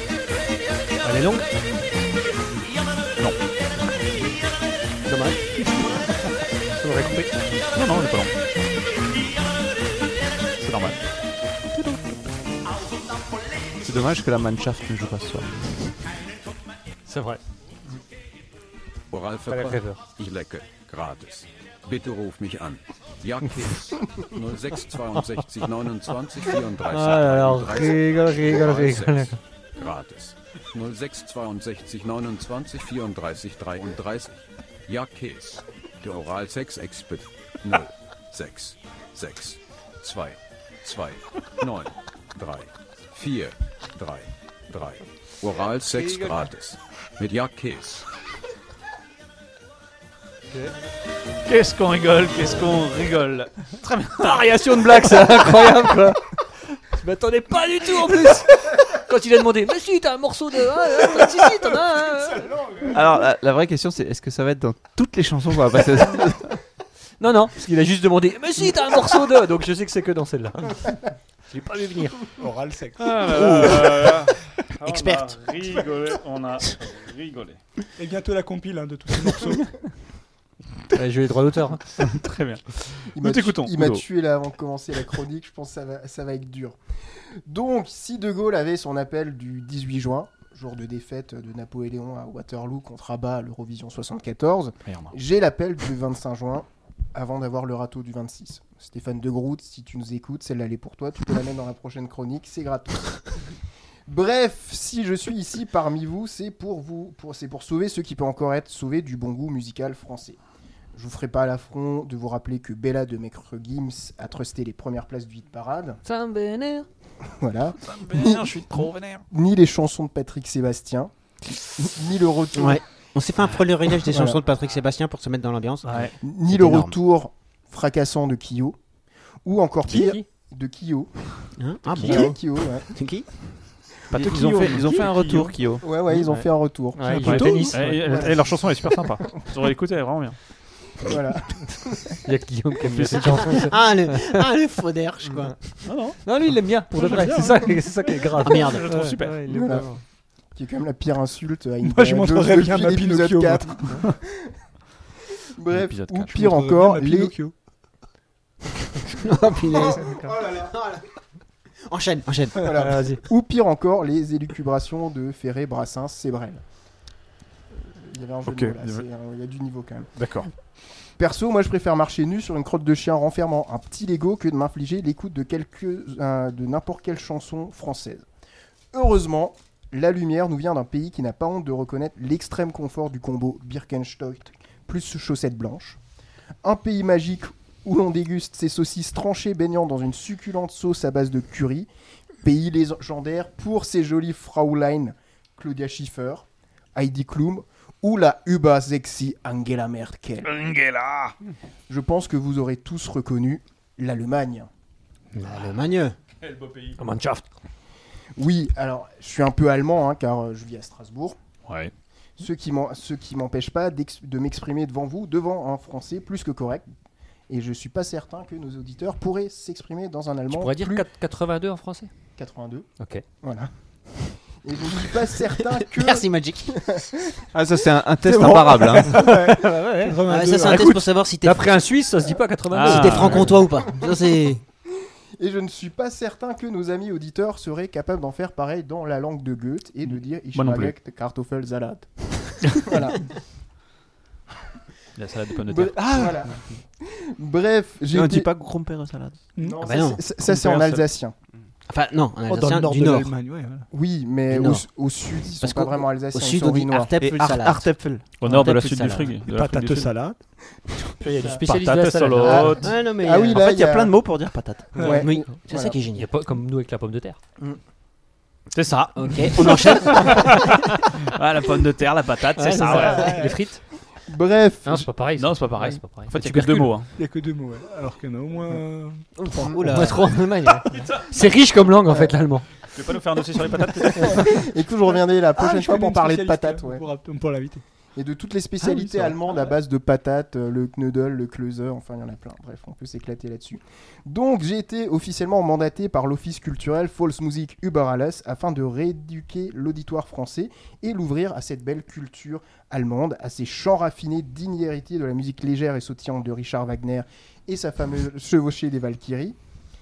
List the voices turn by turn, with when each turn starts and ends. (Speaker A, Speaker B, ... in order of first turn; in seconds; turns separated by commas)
Speaker A: 1.0-1.5, Speaker A: 5.0-6.0, Speaker A: 6.7-7.3, Speaker B: 7.7-8.3, Speaker B: 10.6-11.0, Speaker C: 13.8-15.7, Speaker A: 17.1-17.4, Speaker D: 19.1-48.0, Speaker A: 19.5-20.0, Speaker A: 26.8-29.4, Speaker A: 45.8-46.5, Speaker B: 51.5-54.4, Speaker A: 54.2-56.3, Speaker A: 56.9-62.5, Speaker E: 62.3-63.0, Speaker C: 62.9-66.6, Speaker A: 67.2-72.4, Speaker E: 72.4-73.9, Speaker B: 73.0-77.6, Speaker F: 74.8-75.2, Speaker E: 78.0-79.8, Speaker A: 80.9-82.0, Speaker B: 82.0-84.0, Speaker G: 83.1-86.8, Speaker G: 87.5-103.4, Speaker B: 94.8-95.1, Speaker G: 104.1-110.4, Speaker G: 110.9-116.0, Speaker A: 116.0-116.9, Speaker G: 117.4-121.1, Speaker B: 117.8-119.2, Speaker G: 121.8-122.8, Speaker F: 122.5-126.0, Speaker G: 124.1-124.4, Speaker A: 125.8-126.1, Speaker G: 126.2-128.8, Speaker F: 126.5-126.9, Speaker G: 129.4-132.9, Speaker A: 129.9-130.2, Speaker F: 131.6-133.3, Speaker B: 132.0-132.2, Speaker C: 134.1-135.8, Speaker B: 134.1-135.5, Speaker A: 134.5-135.0, Speaker G: 135.8-139.0, Speaker A: 136.1-138.3, Speaker B: 137.2-140.4, Speaker G: 141.0-142.2, Speaker A: 142.2-144.4, Speaker B: 142.9-143.4, Speaker F: 143.7-145.6, Speaker B: 145.8-146.2, Speaker A: 146.2-150.0, Speaker B: 147.0-147.4, Speaker E: 147.1-147.8, Speaker F: 148.4-148.8, Speaker B: 148.5-149.4, Speaker G: 149.5-149.9, Speaker G: 150.5-154.5, Speaker E: 151.8-154.1, Speaker G: 155.6-157.4, Speaker A: 155.7-156.3, Speaker E: 156.3-157.5, Speaker F: 159.1-161.0, Speaker G: 159.9-160.7, Speaker F: 161.9-163.2, Speaker G: 162.6-166.6, Speaker G: 167.8-170.2, Speaker B: 168.4-169.0, Speaker B: 170.2-170.5, Speaker G: 171.2-178.2, Speaker G: 178.9-186.0, Speaker G: 186.6-191.9, Speaker G: 192.4-200.5, Speaker B: 200.4-201.3, Speaker G: 201.9-204.7, Speaker F: 205.4-206.2, Speaker B: 206.4-207.0, Speaker A: 207.0-207.5, Speaker G: 208.3-211.4, Speaker B: 211.7-211.9, Speaker G: 212.4-216.8, Speaker G: 217.5-221.1, Speaker A: 220.5-222.1, Speaker G: 222.4-223.7, Speaker A: 223.0-223.2, Speaker G: 224.5-227.3, Speaker F: 225.9-226.8, Speaker C: 227.5-229.2, Speaker E: 228.2-230.9, Speaker A: 229.1-233.7, Speaker F: 230.3-231.7, Speaker B: 232.7-233.5, Speaker F: 232.8-234.6, Speaker G: 235.4-243.4, Speaker B: 240.5-240.9, Speaker B: 245.2-246.5, Speaker G: 245.7-248.5, Speaker C: 248.1-249.4, Speaker G: 249.6-251.3, Speaker F: 249.8-250.2, Speaker B: 250.4-251.1, Speaker F: 251.9-253.3, Speaker E: 252.5-253.9, Speaker G: 253.9-257.1, Speaker F: 254.5-254.8, Speaker F: 255.6-259.3, Speaker C: 257.2-258.2, Speaker B: 258.4-260.1, Speaker E: 259.4-260.4, Speaker A: 261.2-262.9, Speaker B: 261.2-262.9, Speaker G: 262.4-264.2, Speaker F: 262.8-263.6, Speaker C: 263.5-265.0, Speaker G: 264.9-266.0, Speaker E: 264.9-265.2, Speaker F: 265.0-266.3, Speaker A: 266.1-267.4, Speaker B: 268.7-273.4, Speaker F: 269.1-270.6, Speaker A: 272.6-273.8, Speaker E: 272.8-273.6, Speaker G: 274.3-275.1, Speaker A: 274.8-277.0, Speaker B: 275.4-277.1, Speaker E: 277.1-279.2, Speaker F: 279.4-280.4, Speaker G: 279.6-280.0, Speaker A: 279.8-282.6, Speaker B: 280.9-281.2, Speaker G: 282.1-282.3, Speaker B: 282.9-284.6, Speaker A: 284.2-284.4, Speaker G: 284.2-287.0, Speaker E: 285.5-287.8, Speaker G: 288.1-309.6, Speaker E: 288.8-289.4